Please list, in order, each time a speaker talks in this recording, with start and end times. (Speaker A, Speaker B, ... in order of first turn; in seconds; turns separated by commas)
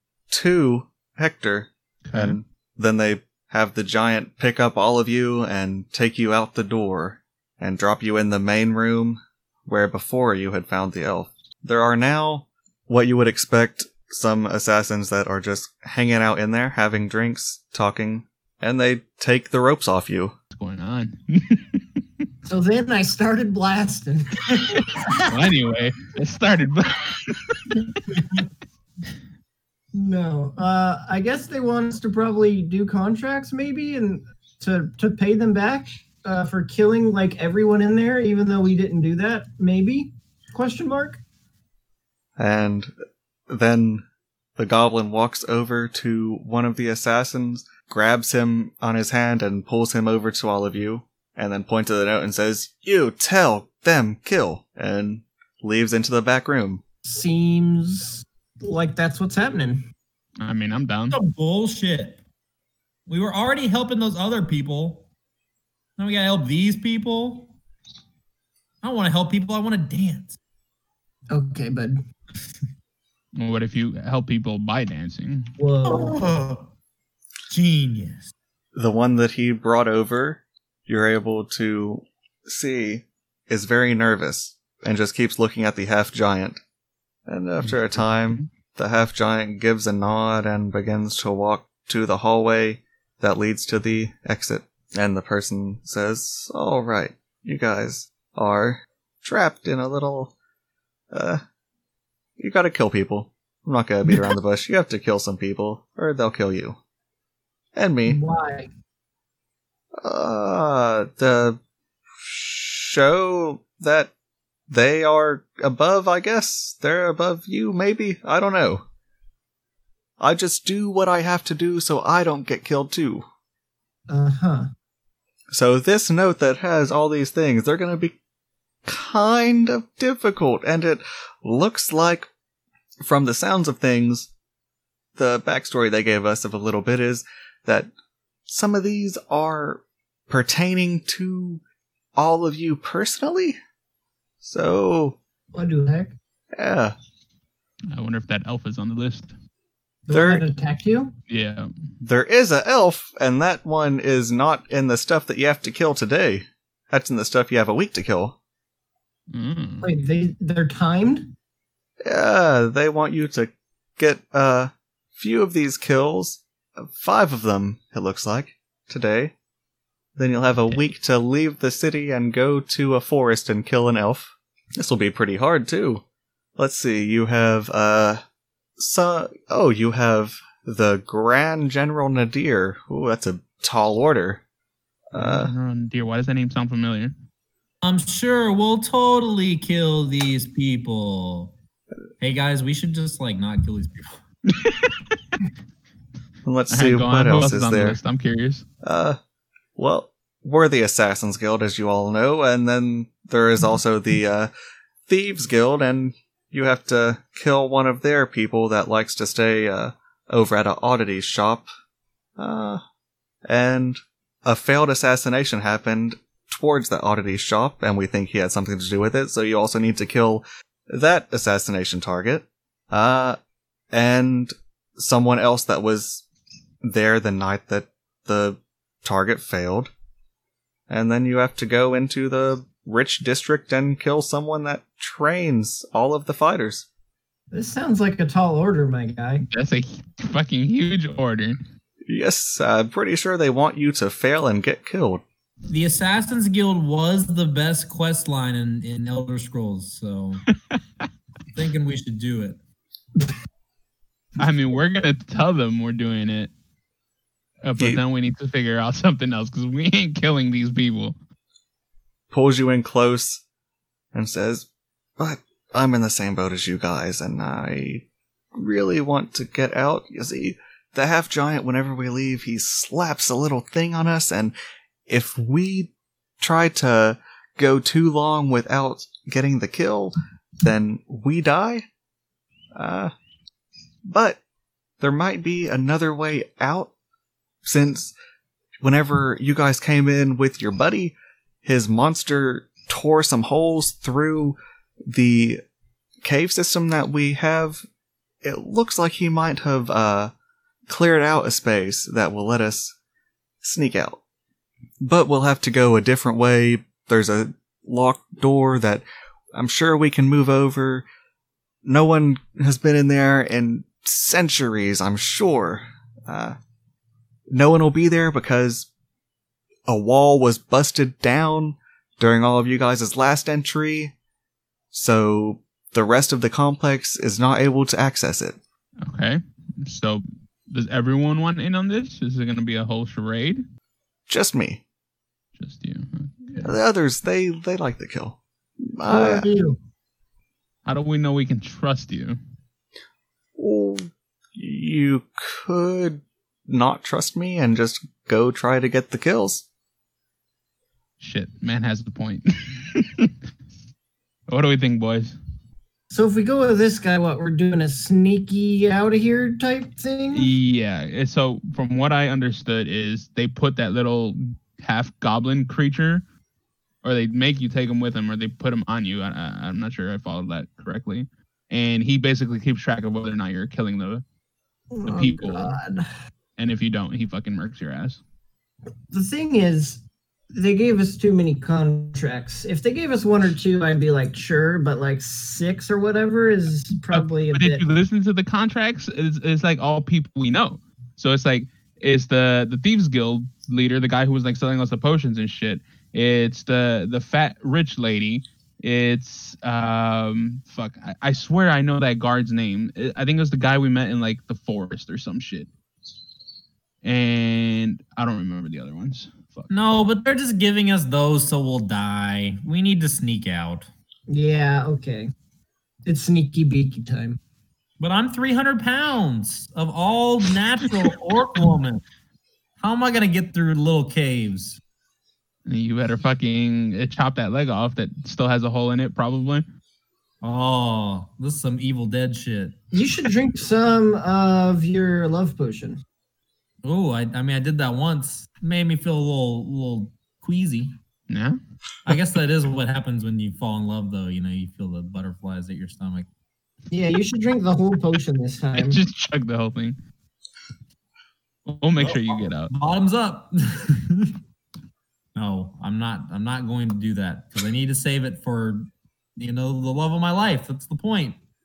Speaker A: 0.3-20.3, Speaker B: 2.0-2.4, Speaker B: 20.5-22.0, Speaker C: 22.4-25.4, Speaker B: 25.2-28.0, Speaker C: 29.9-41.2, Speaker A: 42.4-42.9, Speaker A: 43.5-44.0, Speaker A: 44.6-56.8, Speaker C: 57.0-59.8, Speaker B: 60.4-61.2, Speaker D: 61.1-62.2, Speaker D: 63.1-65.1, Speaker D: 66.0-67.5, Speaker D: 68.8-70.4, Speaker C: 71.3-72.0, Speaker B: 73.4-75.5, Speaker C: 75.6-76.2, Speaker D: 75.8-76.7, Speaker D: 77.5-78.3, Speaker A: 78.8-86.6, Speaker A: 87.3-100.3, Speaker B: 87.6-88.5, Speaker A: 101.1-101.4, Speaker A: 102.4-106.8, Speaker A: 107.8-108.2, Speaker C: 108.1-108.7, Speaker A: 110.0-111.6, Speaker A: 112.2-114.1, Speaker A: 114.7-118.8, Speaker A: 120.2-123.3, Speaker C: 124.1-124.7, Speaker A: 125.5-128.2, Speaker A: 128.8-132.3, Speaker A: 133.0-134.3, Speaker A: 135.2-137.9, Speaker A: 138.5-141.6, Speaker A: 142.2-143.6, Speaker A: 144.4-145.2, Speaker C: 145.5-146.2, Speaker A: 146.6-146.9, Speaker B: 147.9-149.4, Speaker C: 150.1-151.1, Speaker A: 150.1-150.5, Speaker B: 151.3-151.7, Speaker A: 152.0-158.3, Speaker B: 159.3-159.9, Speaker C: 159.8-161.3, Speaker A: 162.1-169.3, Speaker A: 170.2-176.0, Speaker A: 176.6-178.2, Speaker A: 178.8-184.4, Speaker A: 185.1-185.5, Speaker B: 185.1-187.1, Speaker D: 187.8-191.6, Speaker D: 192.2-194.2, Speaker B: 194.5-195.0, Speaker A: 196.4-198.0, Speaker B: 196.7-198.7, Speaker A: 198.8-199.2, Speaker A: 199.8-204.5, Speaker A: 205.1-211.7, Speaker A: 212.4-212.8, Speaker A: 213.5-223.4, Speaker A: 223.9-226.2, Speaker A: 226.8-229.9, Speaker A: 230.9-236.9, Speaker C: 237.5-239.4, Speaker B: 239.4-241.6, Speaker A: 242.1-245.2, Speaker D: 245.7-250.4, Speaker B: 250.7-251.1, Speaker D: 251.5-252.6, Speaker B: 254.4-256.5, Speaker B: 257.6-261.2, Speaker A: 262.3-263.4, Speaker A: 264.1-264.7, Speaker A: 265.2-274.6, Speaker A: 275.1-281.9, Speaker A: 282.8-283.1, Speaker A: 284.1-284.4, Speaker A: 285.0-286.9, Speaker A: 287.6-288.1, Speaker A: 288.8-294.6, Speaker A: 295.1-295.6, Speaker A: 296.2-297.8, Speaker A: 298.4-300.3, Speaker A: 300.9-302.9, Speaker A: 303.6-304.2, Speaker A: 305.0-311.1, Speaker A: 311.9-316.6, Speaker A: 317.5-318.9, Speaker A: 319.9-324.1, Speaker A: 324.9-328.6, Speaker B: 329.0-333.6, Speaker A: 334.3-334.8, Speaker B: 335.6-336.8, Speaker A: 336.6-338.4, Speaker A: 338.9-339.5, Speaker C: 339.1-339.8, Speaker B: 340.9-342.4, Speaker A: 343.6-349.6, Speaker B: 351.2-353.3, Speaker B: 354.5-355.4, Speaker C: 356.1-360.5, Speaker B: 360.3-366.2, Speaker B: 367.0-374.2, Speaker C: 374.9-376.1, Speaker B: 375.1-375.8, Speaker B: 376.6-378.2, Speaker C: 379.1-380.0, Speaker C: 380.5-387.8, Speaker B: 387.1-405.7, Speaker B: 407.0-409.7, Speaker D: 409.7-413.9, Speaker C: 414.3-415.3, Speaker C: 416.1-417.4, Speaker D: 418.0-422.0, Speaker D: 422.8-424.8, Speaker B: 425.7-429.7, Speaker D: 430.4-432.8, Speaker C: 432.9-436.0, Speaker D: 436.8-441.0, Speaker B: 441.3-441.6, Speaker D: 442.1-446.3, Speaker C: 446.9-449.0, Speaker B: 448.8-450.0, Speaker B: 451.7-452.7, Speaker D: 452.0-454.4, Speaker D: 455.4-461.4